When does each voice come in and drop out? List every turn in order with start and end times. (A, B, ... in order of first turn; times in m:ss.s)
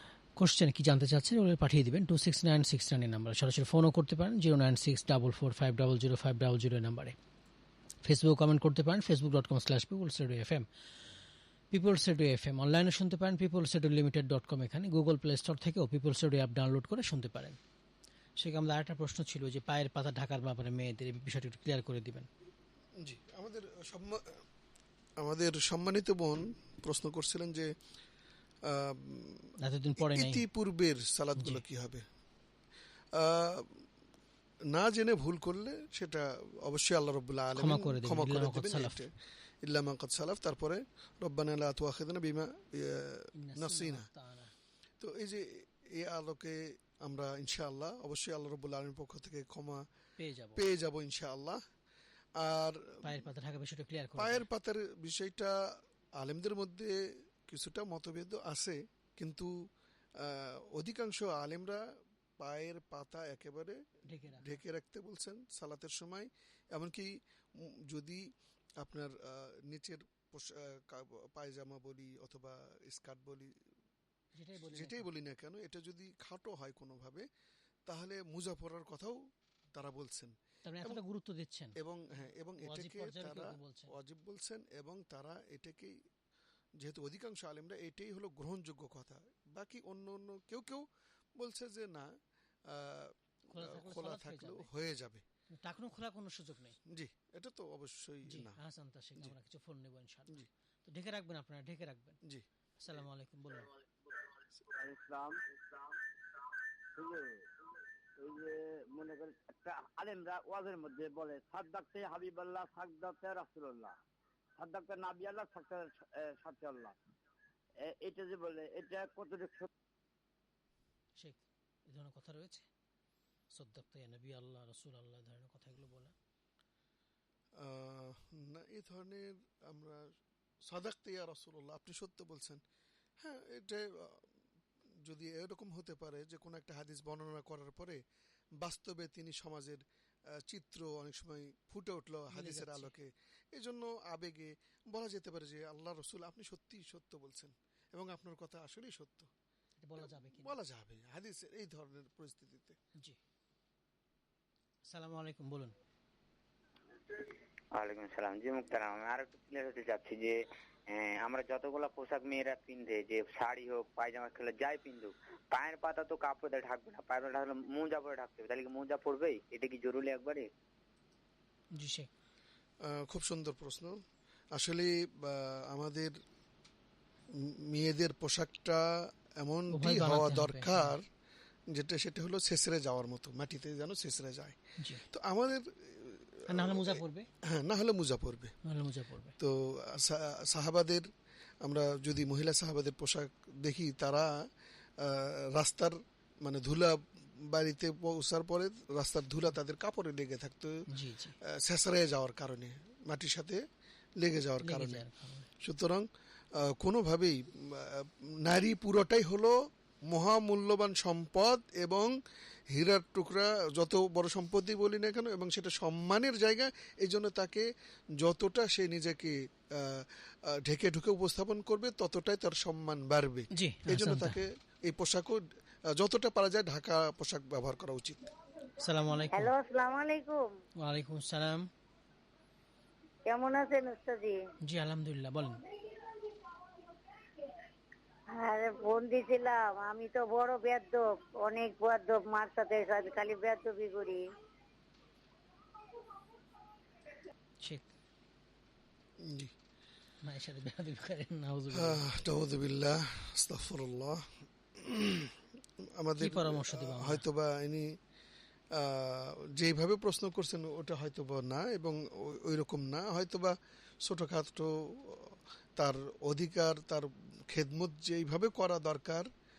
0:00.4-0:07.2 A
0:08.0-0:10.7 A
0:11.7-0:17.6 A
0:18.4-0:22.3 A
0:23.0-0:24.4 B
0:25.2-0:27.7 B
0:28.6-0:32.0 B
0:29.6-0:30.4 A
0:33.2-0:33.8 B
0:34.7-0:39.1 B
0:37.6-0:39.0 A
0:39.6-0:44.1 B
0:43.4-0:44.5 A
0:45.0-0:49.9 B
0:50.2-0:50.6 A
0:50.6-0:51.6 B
0:52.4-0:53.2 B
0:53.0-0:54.4 A
0:54.2-0:59.5 B
1:00.2-1:01.8 B
1:02.4-1:03.8 B
1:04.1-1:04.6 A
1:04.4-1:08.3 B
1:08.8-1:13.5 B
1:14.3-1:15.1 A
1:14.7-1:17.2 B
1:17.9-1:19.2 B
1:19.8-1:21.0 B
1:20.7-1:21.8 A
1:21.8-1:26.0 B
1:22.6-1:23.9 A
1:26.8-1:30.9 B
1:31.4-1:32.1 B
1:32.7-1:35.2 B
1:33.5-1:34.7 A
1:35.6-1:36.8 A
1:36.9-1:38.6 B
1:38.3-1:42.2 A
1:42.8-1:43.7 A
1:44.8-1:45.4 C
1:47.0-1:47.4 C
1:48.2-1:54.0 C
1:54.6-1:57.0 C
1:57.8-1:59.7 C
2:01.2-2:02.7 A
2:03.5-2:06.2 A
2:07.6-2:10.1 B
2:10.6-2:12.6 B
2:13.2-2:14.3 B
2:15.0-2:18.0 B
2:18.6-2:19.8 B
2:20.4-2:29.3 B
2:22.3-2:22.9 A
2:29.8-2:30.6 A
2:30.0-2:32.8 B
2:34.9-2:35.8 A
2:37.1-2:50.5 D
2:51.7-2:52.1 A
2:52.8-2:54.0 B
2:54.5-2:56.2 B
2:57.3-3:01.1 B
2:59.7-3:00.9 A
3:01.7-3:04.6 B
3:04.8-3:05.1 A
3:05.1-3:08.5 B
3:06.5-3:07.3 A
3:08.7-3:09.4 A
3:09.4-3:11.1 B
3:11.6-3:14.3 B
3:15.0-3:20.8 B
3:20.9-3:21.4 A
3:21.4-3:23.6 B
3:24.2-3:25.0 B
3:24.6-3:25.5 A
3:25.6-3:29.6 B
3:30.1-3:32.2 B
3:32.7-3:48.2 B
3:43.5-3:44.4 A
3:48.8-3:49.5 A
3:49.3-3:50.4 E
3:50.8-3:51.7 A
3:53.3-3:54.4 E
3:54.6-3:55.6 A
3:58.3-4:04.2 E
4:07.6-4:07.9 A
4:09.2-4:09.5 B
4:10.2-4:12.1 A
4:11.7-4:15.4 B
4:16.0-4:17.9 B
4:16.2-4:17.2 A
4:18.7-4:29.3 B